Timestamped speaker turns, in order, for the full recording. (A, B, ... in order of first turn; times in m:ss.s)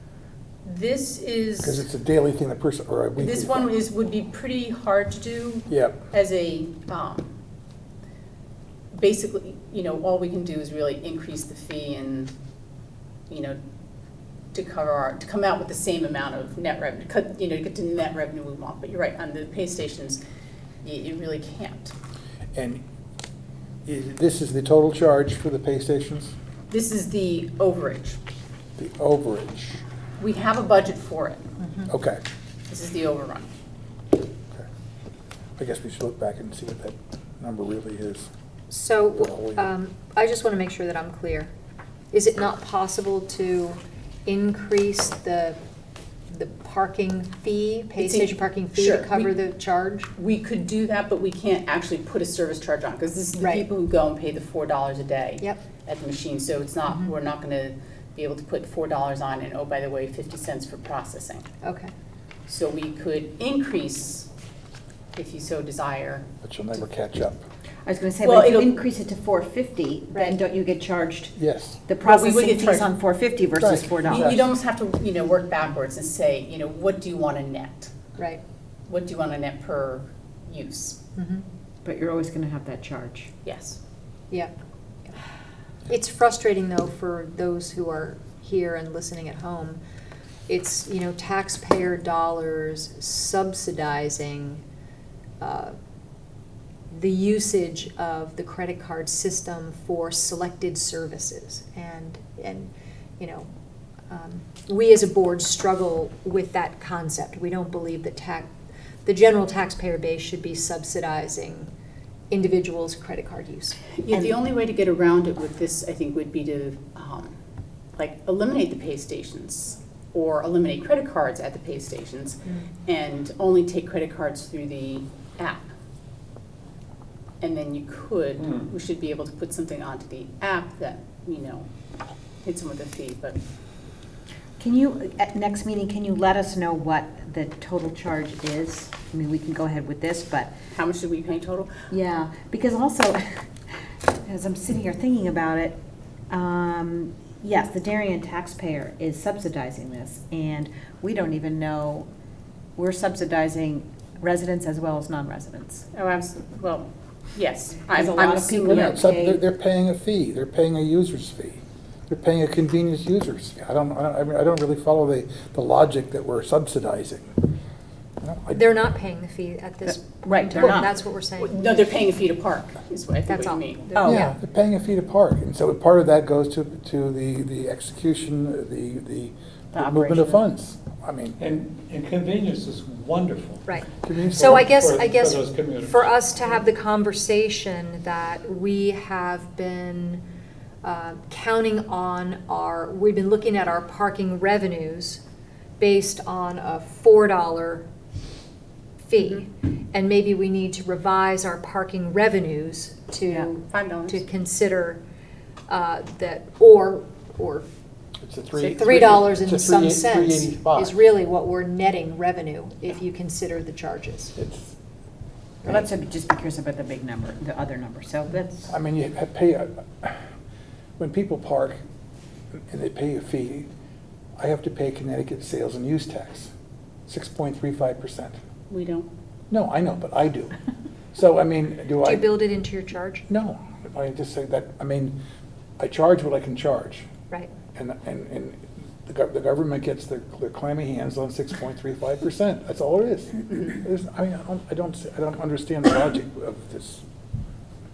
0:00.6-0:01.8 A
0:01.6-0:03.7 B
0:03.2-0:07.3 A
0:05.7-0:06.0 B
0:08.9-0:12.3 A
0:13.3-0:13.6 A
0:14.5-0:20.2 A
0:20.8-0:21.9 A
0:22.5-0:22.8 B
0:23.8-0:26.3 B
0:26.7-0:28.2 A
0:28.8-0:29.8 B
0:30.2-0:31.5 A
0:31.6-0:31.9 C
0:31.9-0:32.2 B
0:32.7-0:33.5 A
0:35.6-0:38.3 B
0:38.7-0:41.5 C
0:39.2-0:39.6 B
0:42.1-0:45.6 C
0:46.3-0:50.1 C
0:48.0-0:49.3 A
0:50.2-1:01.4 A
0:53.4-0:53.6 C
1:01.6-1:01.9 C
1:02.5-1:04.3 A
1:05.1-1:06.3 A
1:06.4-1:07.4 B
1:07.8-1:14.4 D
1:08.2-1:08.7 A
1:11.4-1:11.8 B
1:12.0-1:12.9 A
1:13.6-1:14.4 B
1:14.0-1:17.9 A
1:18.9-1:21.0 A
1:21.2-1:21.4 C
1:21.8-1:23.3 D
1:23.4-1:23.8 A
1:25.9-1:29.8 C
1:30.5-1:34.6 C
1:35.4-1:35.7 C
1:36.9-1:43.5 C
1:44.1-1:48.5 C
1:49.0-1:51.7 C
1:52.3-1:53.8 C
1:54.0-1:57.3 A
1:58.0-2:05.6 A
2:07.4-2:11.6 A
2:08.4-2:08.6 E
2:12.4-2:13.4 A
2:14.6-2:20.6 D
2:20.7-2:21.7 A
2:21.9-2:32.1 D
2:32.8-2:35.9 D
2:35.9-2:39.0 A
2:37.9-2:39.4 D
2:38.8-2:47.4 B
2:48.2-2:48.6 B
2:48.5-2:51.7 C
2:49.8-2:50.9 D
2:51.4-2:53.8 A
2:53.3-2:54.4 C
2:54.0-2:54.3 D
2:54.0-3:01.4 B
2:59.7-3:00.4 D
3:01.4-3:03.7 E
3:03.6-3:10.2 C
3:04.0-3:04.4 B
3:04.2-3:06.1 E
3:10.8-3:15.2 C
3:15.8-3:17.8 C
3:19.0-3:25.0 C
3:23.7-3:24.2 A
3:25.7-3:27.7 C
3:28.2-3:31.0 B
3:28.7-3:34.3 C
3:34.4-3:34.8 B
3:35.6-3:38.7 D
3:38.7-3:40.2 B
3:41.0-3:41.8 B
3:42.5-3:43.7 B
3:44.4-3:46.5 B
3:47.1-3:48.4 B
3:48.7-3:49.1 A
3:49.5-3:50.5 B
3:51.1-3:52.4 B
3:52.0-3:53.2 C
3:53.3-3:55.2 B
3:55.8-3:57.0 B
3:57.7-4:07.0 B